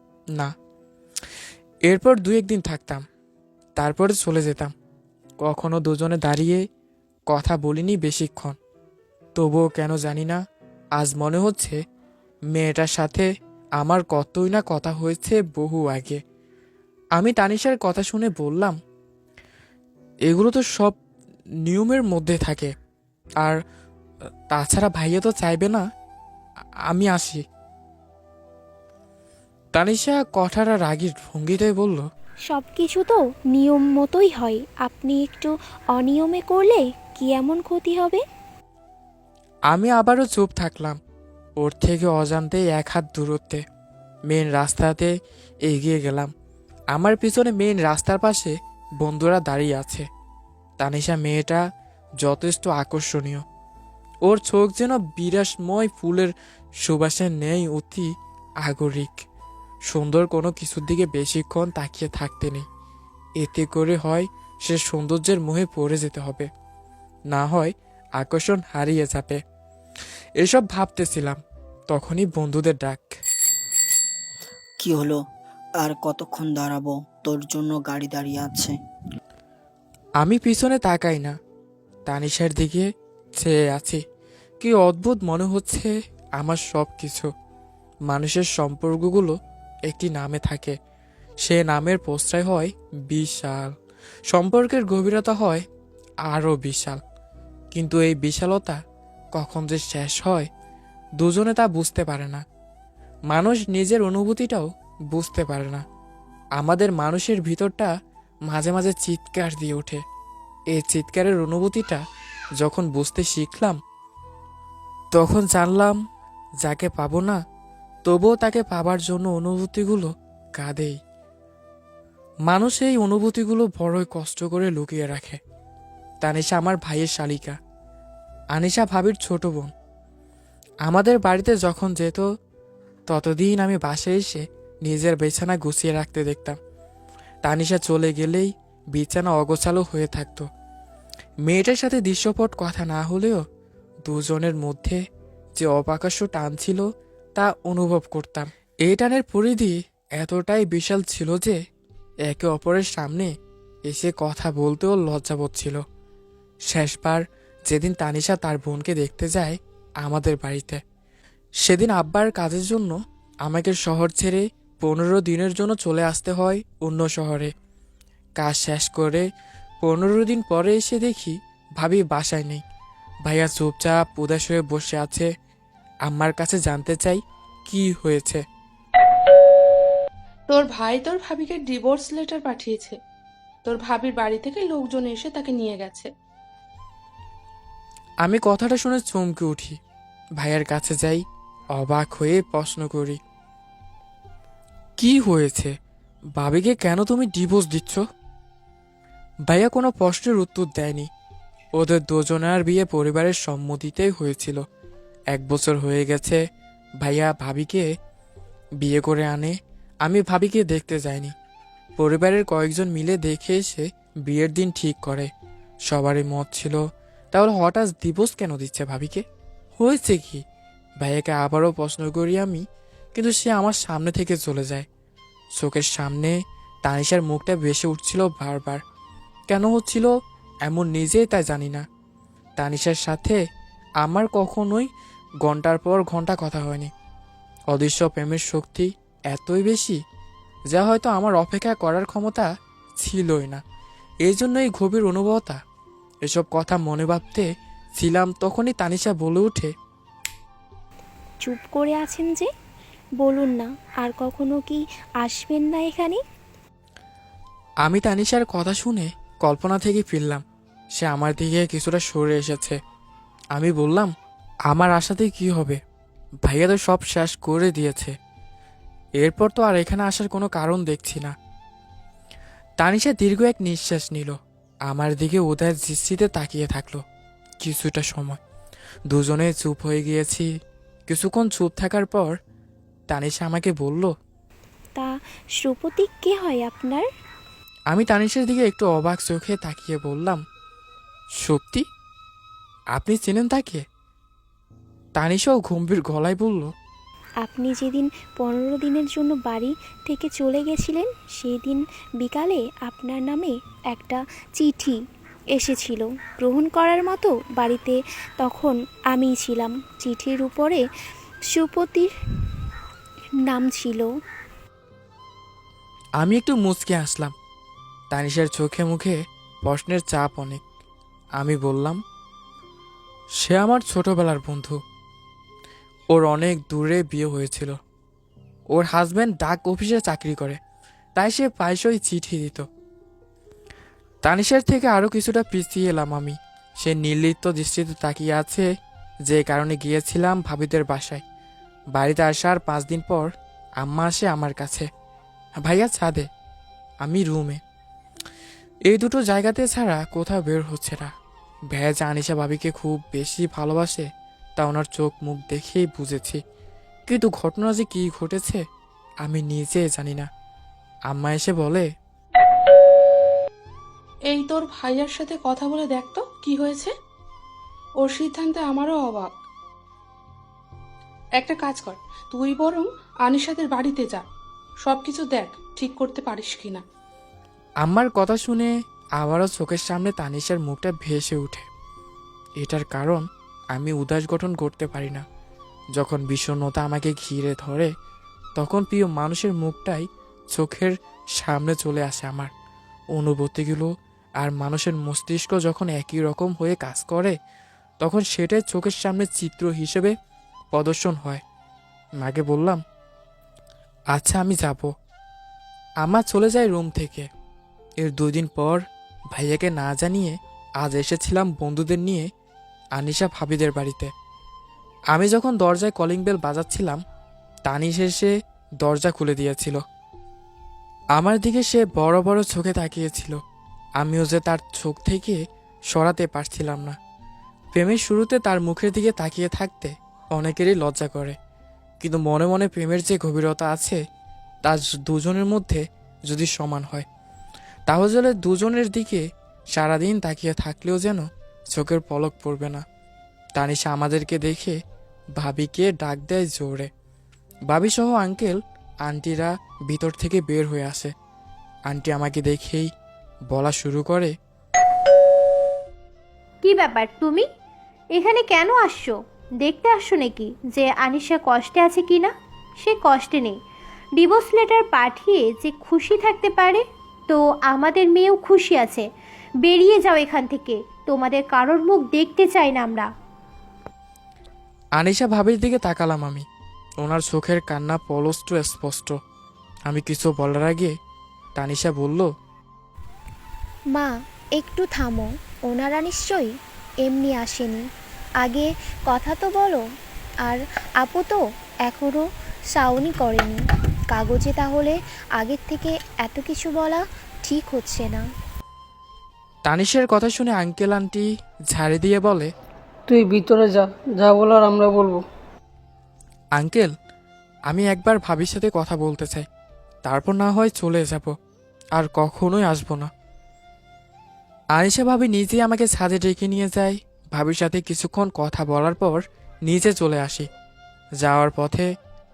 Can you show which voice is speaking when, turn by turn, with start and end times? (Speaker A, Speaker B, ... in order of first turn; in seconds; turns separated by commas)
Speaker A: 1.9-3.1, Speaker A: 3.8-4.7, Speaker A: 5.4-6.7, Speaker A: 7.3-8.6, Speaker A: 9.4-10.4, Speaker A: 11.0-11.8, Speaker A: 12.5-16.2, Speaker A: 17.2-18.8, Speaker A: 20.3-21.0, Speaker A: 21.6-22.7, Speaker A: 24.5-25.9, Speaker A: 26.9-27.4, Speaker A: 29.7-32.1, Speaker B: 32.5-38.2, Speaker A: 39.7-41.0, Speaker A: 41.6-43.6, Speaker A: 44.3-45.1, Speaker A: 45.6-46.3, Speaker A: 46.9-50.1, Speaker A: 50.8-51.6, Speaker A: 52.2-53.5, Speaker A: 54.2-59.3, Speaker A: 59.9-62.7, Speaker A: 63.4-66.5, Speaker A: 67.3-69.4, Speaker A: 70.4-73.1, Speaker C: 74.8-75.2, Speaker C: 75.8-78.8, Speaker A: 80.2-81.4, Speaker A: 82.1-84.0, Speaker A: 84.6-87.3, Speaker A: 88.1-89.4, Speaker A: 89.9-90.8, Speaker A: 91.4-93.7, Speaker A: 94.3-95.7, Speaker A: 96.3-97.0, Speaker A: 97.7-98.8, Speaker A: 99.3-100.5, Speaker A: 101.2-102.4, Speaker A: 103.3-105.8, Speaker A: 106.6-107.9, Speaker A: 108.5-110.0, Speaker A: 110.7-112.0, Speaker A: 112.6-113.8, Speaker A: 115.1-116.0, Speaker A: 116.6-117.4, Speaker A: 118.1-121.0, Speaker A: 122.5-125.4, Speaker A: 126.2-127.6, Speaker A: 128.5-129.7, Speaker A: 130.9-132.2, Speaker A: 133.1-136.6, Speaker A: 137.4-140.5, Speaker A: 141.4-143.4, Speaker A: 144.1-145.0, Speaker A: 145.6-151.6, Speaker A: 152.3-153.3, Speaker A: 153.8-155.8, Speaker A: 156.7-160.8, Speaker A: 161.6-167.5, Speaker A: 168.4-169.3, Speaker A: 169.8-172.6, Speaker A: 173.2-175.3, Speaker A: 176.1-178.4, Speaker D: 180.5-183.0, Speaker D: 183.7-186.1, Speaker A: 188.2-189.8, Speaker A: 190.4-191.2, Speaker A: 191.8-193.2, Speaker A: 195.0-195.7, Speaker A: 196.4-198.0, Speaker A: 199.5-201.1, Speaker A: 201.8-204.6, Speaker A: 205.3-206.4, Speaker A: 207.0-207.9, Speaker A: 208.8-211.3, Speaker A: 212.0-215.3, Speaker A: 215.9-216.8, Speaker A: 217.3-219.2, Speaker A: 219.8-220.4, Speaker A: 221.0-224.9, Speaker A: 225.6-228.8, Speaker A: 229.5-230.1, Speaker A: 230.7-231.9, Speaker A: 232.6-233.4, Speaker A: 234.0-234.9, Speaker A: 235.4-236.9, Speaker A: 237.7-240.0, Speaker A: 240.7-243.6, Speaker A: 244.2-245.6, Speaker A: 246.3-249.7, Speaker B: 251.4-252.5, Speaker B: 253.2-256.2, Speaker A: 257.9-260.4, Speaker A: 261.0-262.8, Speaker A: 263.6-264.1, Speaker A: 264.7-265.8, Speaker A: 266.5-268.1, Speaker A: 269.2-271.4, Speaker A: 272.8-277.0, Speaker A: 277.6-278.4, Speaker A: 279.1-280.5, Speaker A: 281.1-282.4, Speaker A: 283.1-284.1, Speaker B: 285.0-287.1, Speaker A: 287.9-290.4, Speaker A: 291.4-291.9, Speaker A: 292.9-293.9, Speaker A: 295.2-296.7, Speaker B: 297.4-305.0, Speaker B: 305.6-310.8, Speaker B: 311.5-312.1, Speaker B: 313.5-314.1, Speaker A: 316.2-317.4, Speaker A: 318.1-320.6, Speaker A: 321.4-322.0, Speaker A: 323.4-324.8, Speaker A: 326.1-327.8, Speaker A: 328.7-330.6, Speaker A: 331.2-332.7, Speaker A: 334.2-338.7, Speaker A: 339.3-341.2, Speaker A: 341.9-344.9, Speaker A: 345.6-346.3, Speaker A: 347.0-347.6, Speaker A: 348.9-351.1, Speaker A: 351.7-356.4, Speaker A: 357.1-358.6, Speaker A: 359.2-360.3, Speaker A: 361.1-361.9, Speaker D: 364.3-366.9, Speaker D: 368.0-369.4, Speaker D: 371.4-374.2, Speaker D: 374.8-376.8, Speaker A: 377.8-381.7, Speaker A: 382.6-385.2, Speaker A: 385.9-387.9, Speaker A: 388.6-392.5, Speaker A: 393.1-397.4, Speaker A: 398.0-400.1, Speaker A: 400.7-401.4, Speaker A: 402.2-402.8, Speaker A: 404.1-404.9, Speaker A: 406.0-407.3, Speaker A: 408.0-412.3, Speaker A: 412.9-414.1, Speaker A: 415.1-417.0, Speaker A: 417.7-419.8, Speaker A: 421.2-423.4, Speaker A: 424.0-425.4, Speaker A: 425.9-427.0, Speaker A: 427.7-431.4, Speaker A: 432.0-434.0, Speaker A: 434.6-437.1, Speaker A: 437.9-442.9, Speaker A: 443.6-444.8, Speaker A: 445.4-446.9, Speaker A: 447.7-451.1, Speaker A: 451.9-452.9, Speaker A: 453.5-454.4, Speaker E: 456.6-457.5, Speaker E: 458.1-463.6, Speaker E: 464.2-469.1, Speaker E: 469.6-473.1, Speaker A: 475.0-476.5, Speaker A: 477.0-479.2, Speaker A: 479.9-480.9, Speaker A: 481.6-482.3, Speaker B: 483.9-486.5, Speaker B: 487.1-487.9, Speaker B: 488.4-489.8, Speaker B: 490.4-493.6, Speaker B: 494.1-498.2, Speaker A: 499.7-502.5, Speaker F: 503.1-505.2, Speaker A: 506.6-506.9, Speaker A: 507.7-509.5, Speaker A: 510.1-511.3, Speaker A: 512.0-513.1, Speaker A: 514.8-520.5, Speaker A: 521.2-521.9